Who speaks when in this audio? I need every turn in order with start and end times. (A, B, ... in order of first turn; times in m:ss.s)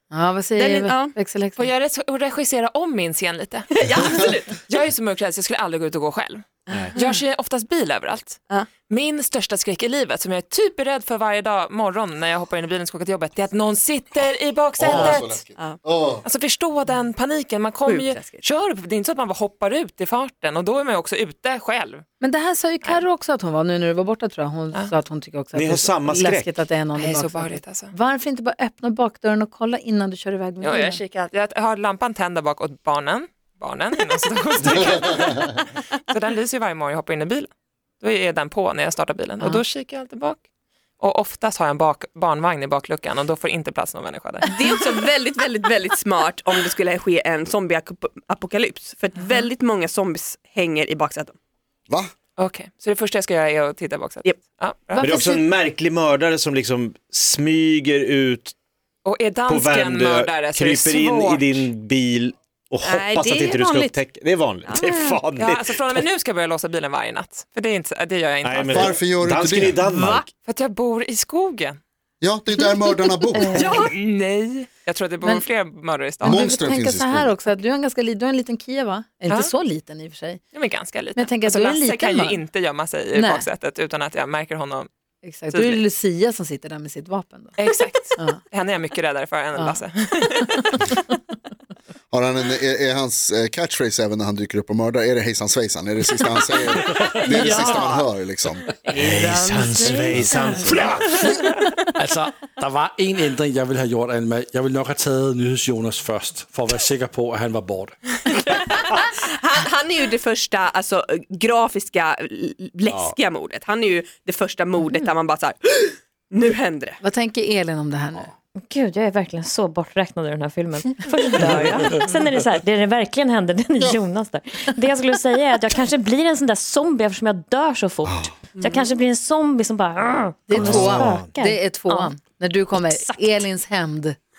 0:00.1-0:01.7 A
0:00.6-0:01.1 B
0:01.6-0:15.4 C
0:03.8-0:04.6 B
0:06.7-0:07.0 D
0:14.8-0:16.2 E
0:14.9-0:15.8 B
0:16.2-0:22.0 C
0:17.9-0:18.4 B
0:22.2-0:31.0 A
0:25.6-0:26.5 D
0:26.9-0:27.9 C
0:30.6-0:40.4 C
0:41.0-0:44.5 C
0:44.5-0:51.4 B
0:52.4-0:55.4 C
0:55.0-0:58.6 D
0:59.0-1:01.7 C
0:59.5-1:06.0 D
1:02.8-1:04.0 B
1:04.7-1:05.2 B
1:05.4-1:09.1 C
1:08.4-1:10.2 D
1:08.7-1:09.8 E
1:09.9-1:10.2 B
1:10.0-1:11.8 C
1:12.2-1:13.8 E
1:13.4-1:13.9 B
1:13.8-1:16.5 C
1:16.2-1:17.4 E
1:16.2-1:20.4 A
1:19.3-1:19.5 C
1:20.5-1:24.9 C
1:21.2-1:22.4 A
1:23.1-1:23.5 A
1:25.2-1:27.6 A
1:25.5-1:25.8 C
1:27.6-1:30.8 C
1:29.6-1:29.8 A
1:32.1-1:38.7 E
1:37.3-1:38.0 B
1:38.8-1:40.9 B
1:38.9-1:41.2 D
1:40.3-1:40.8 A
1:42.0-1:48.0 F
1:48.5-1:57.0 B
1:52.9-1:53.1 D
1:57.0-1:58.3 A
1:58.7-2:12.1 G
2:10.5-2:14.2 A
2:10.6-2:11.3 D
2:12.7-2:13.4 G